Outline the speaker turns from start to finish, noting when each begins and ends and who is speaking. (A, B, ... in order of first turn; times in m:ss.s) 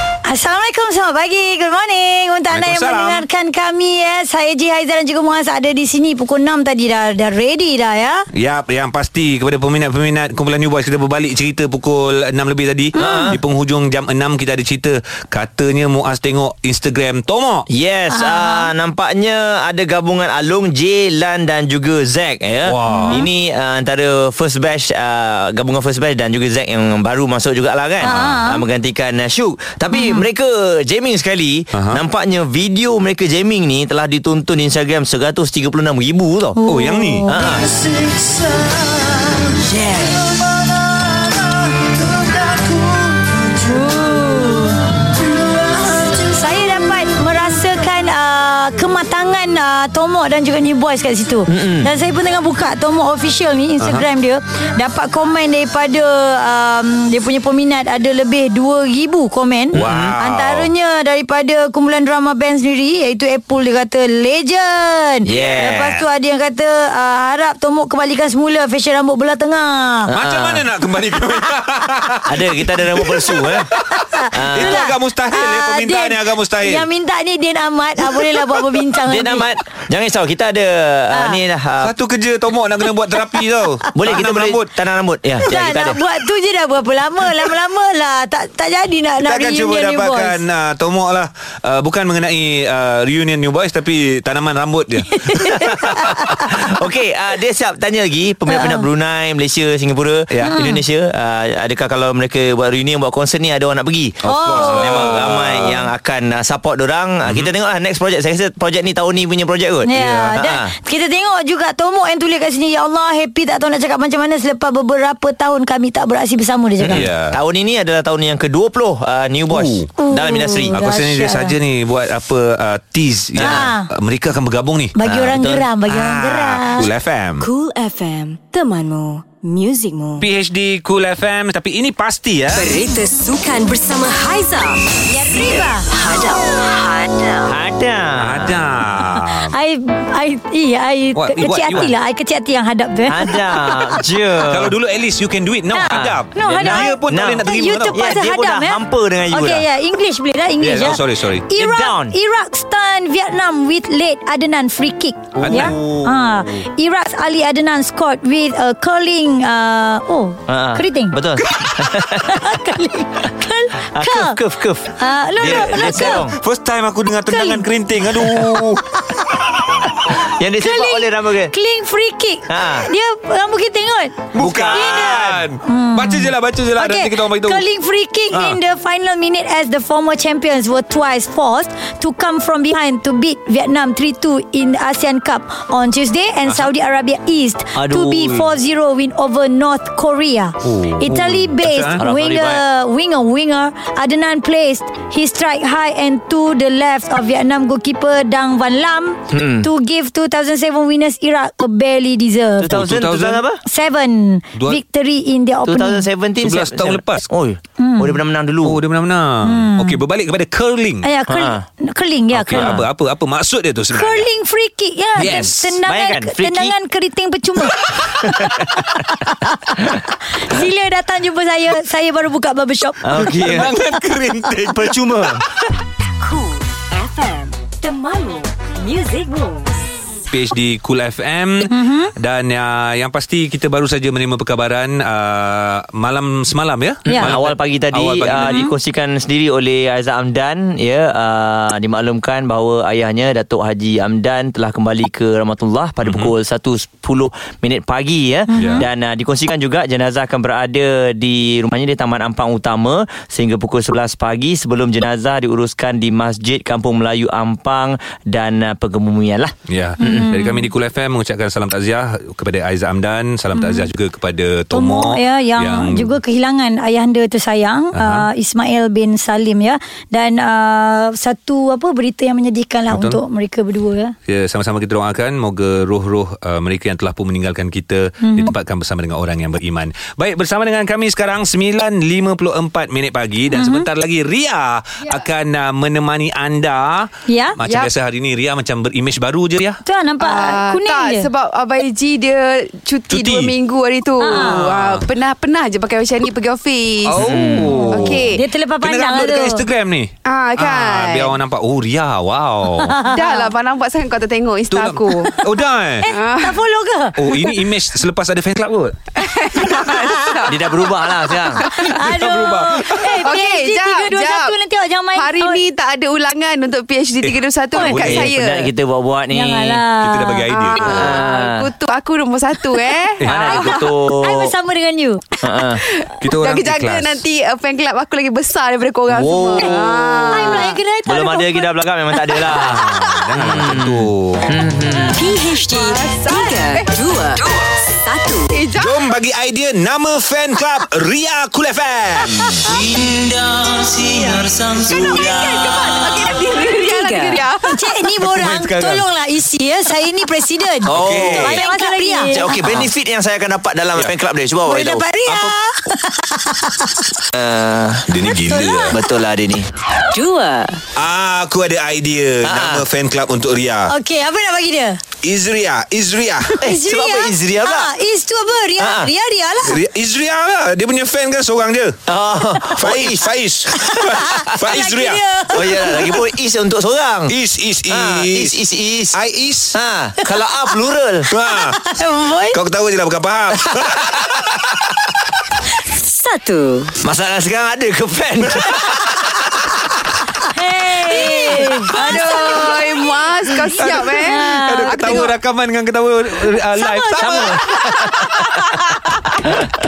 0:00.3-0:08.2 A
0:02.5-0:03.2 B
0:08.3-0:17.7 B
0:13.0-0:13.3 A
0:13.0-0:13.4 C
0:17.7-0:36.6 C
0:18.1-0:18.7 A
0:22.7-0:23.2 B
0:22.9-0:23.3 A
0:28.0-0:28.6 A
0:29.9-0:30.2 A
0:31.7-0:32.0 B
0:36.6-0:37.6 A
0:36.6-0:37.3 B
0:37.3-0:37.7 C
0:39.4-0:40.3 C
0:42.2-0:42.6 D
0:43.7-0:44.8 A
0:46.0-1:10.1 A
0:51.5-0:51.9 C
0:59.7-1:00.1 C
0:59.7-1:00.7 B
1:05.2-1:06.0 C
1:05.3-1:06.0 B
1:10.1-1:16.9 B
1:10.2-1:10.6 C
1:12.3-1:13.7 C
1:14.0-1:19.5 A
1:14.3-1:14.8 C
1:19.1-1:21.9 C
1:21.8-1:24.7 B
1:24.0-1:26.0 C
1:25.4-1:30.4 A
1:29.2-1:36.6 B
1:35.2-1:36.5 A
1:35.4-1:50.7 C
1:38.5-1:38.8 A
1:40.3-1:40.6 B
1:40.4-1:40.8 A
1:44.2-1:45.8 B
1:44.2-1:45.2 A
1:49.9-1:57.1 A
1:56.8-2:00.8 C
1:56.9-1:57.4 B
1:59.5-1:59.9 B
2:00.0-2:01.6 A
2:00.7-2:07.4 B
2:03.4-2:03.9 A
2:03.4-2:03.7 C
2:05.0-2:06.9 A
2:05.2-2:05.6 C
2:07.4-2:10.3 E
2:10.2-2:12.7 B
2:12.5-2:14.8 E
2:15.1-2:15.9 A
2:15.6-2:17.5 E
2:17.5-2:18.7 C
2:18.2-2:19.6 B
2:19.1-2:24.0 A
2:21.2-2:21.9 B
2:23.1-2:24.8 C
2:24.5-2:28.1 B
2:25.7-2:44.4 A
2:25.9-2:29.6 C
2:30.6-2:31.5 B
2:31.5-2:32.2 C
2:35.4-2:36.3 B
2:35.4-2:35.8 C
2:40.5-2:42.5 C
2:43.8-2:46.4 C
2:44.9-2:46.3 A
2:45.4-2:49.0 B
2:47.3-2:47.7 A
2:50.1-2:51.5 C
2:50.6-3:22.7 A
2:52.5-2:52.9 C
2:54.3-2:57.6 B
2:54.4-2:55.4 C
2:58.3-2:58.6 B
3:07.8-3:08.5 C
3:10.6-3:12.0 B
3:12.0-3:12.6 C
3:19.3-3:19.7 C
3:22.6-3:23.6 C
3:22.7-3:23.4 B
3:23.6-3:26.1 A
3:25.6-3:28.8 C
3:26.4-3:27.3 B
3:27.8-3:28.2 A
3:28.6-3:31.1 B
3:29.4-3:30.0 A
3:31.0-3:32.8 A
3:31.3-3:31.6 C
3:32.4-3:34.3 B
3:32.5-3:32.8 C
3:33.9-3:43.4 A
3:35.2-3:35.8 B
3:35.2-3:36.8 C
3:38.2-3:38.9 C
3:43.0-3:43.7 C
3:43.2-3:45.7 B
3:44.7-3:45.4 C
3:46.2-3:49.8 E
3:50.3-3:58.7 B
3:51.6-3:52.1 A
3:57.1-3:57.3 A
3:57.1-4:20.3 C
3:58.4-3:58.7 A
4:06.0-4:06.3 B
4:08.5-4:08.9 A
4:08.5-4:08.8 B
4:19.7-4:26.1 B
4:20.0-4:20.7 A
4:23.5-4:23.9 A
4:24.7-4:34.2 A
4:27.9-4:28.3 B
4:32.9-4:33.2 B
4:34.3-4:49.8 B
4:38.2-4:38.5 A
4:43.5-4:43.9 A
4:47.3-4:47.6 A
4:47.6-4:47.9 F
4:49.9-4:51.3 A
4:50.2-4:58.4 F
4:53.1-4:53.6 B
4:54.2-4:54.6 A
4:54.3-4:55.1 B
4:57.1-5:03.0 B
4:57.2-4:59.6 A
5:00.3-5:01.4 F
5:02.8-5:03.5 A
5:03.0-5:05.3 F
5:04.7-5:06.1 B
5:06.0-5:07.2 A
5:06.1-5:06.6 F
5:07.2-5:09.0 B
5:09.2-5:11.9 F
5:09.9-5:10.4 A
5:10.4-5:11.6 C
5:11.3-5:15.6 A
5:12.0-5:13.2 B
5:13.0-5:14.6 F
5:15.1-5:18.7 F
5:17.2-5:18.3 B
5:17.8-5:18.0 A
5:17.9-5:19.8 C
5:19.3-5:20.5 A
5:20.0-5:21.2 B
5:20.5-5:23.9 F
5:20.8-5:21.7 C
5:23.2-5:23.6 B
5:23.2-5:24.5 C
5:23.6-5:25.2 A
5:25.4-5:25.8 C
5:26.0-5:30.8 F
5:26.2-5:27.2 B
5:29.1-5:35.2 C
5:30.3-5:31.7 A
5:32.3-5:33.4 F
5:32.5-5:34.6 B
5:35.2-5:38.5 E
5:35.4-5:37.5 F
5:38.5-5:39.2 F
5:38.8-5:42.6 B
5:42.7-5:46.0 D
5:44.8-5:47.8 F
5:46.3-5:47.5 E
5:47.6-5:52.6 A
5:48.2-5:49.0 B
5:50.9-5:51.6 B
5:50.9-5:51.7 C
5:51.6-5:52.5 E
5:52.3-5:55.1 C
5:52.6-5:52.9 B
5:54.7-5:57.1 A
5:57.3-5:58.1 C
5:58.1-5:59.0 B
5:58.3-5:59.0 A
5:58.9-5:59.7 C
6:00.1-6:00.8 E
6:01.0-6:03.9 B
6:02.4-6:02.8 C
6:03.9-6:05.0 A
6:05.2-6:06.6 B
6:06.6-6:09.8 A
6:06.6-6:07.9 C
6:08.8-6:09.1 C
6:09.6-6:12.0 B
6:12.1-6:13.3 C
6:12.8-6:15.2 B
6:13.8-6:16.2 A
6:15.5-6:17.3 C
6:17.3-6:18.6 B
6:17.9-6:19.2 C
6:19.1-6:19.8 B
6:19.7-6:21.3 C
6:21.3-6:21.8 B
6:21.4-6:22.6 A
6:22.5-6:24.8 B
6:23.7-6:24.4 C
6:25.9-6:27.0 E
6:27.0-6:29.0 C
6:30.5-6:35.3 A
6:31.2-6:31.7 E
6:31.4-6:35.2 F
6:33.8-6:37.8 B
6:36.8-6:37.5 A
6:37.2-6:38.7 C
6:37.7-6:39.0 F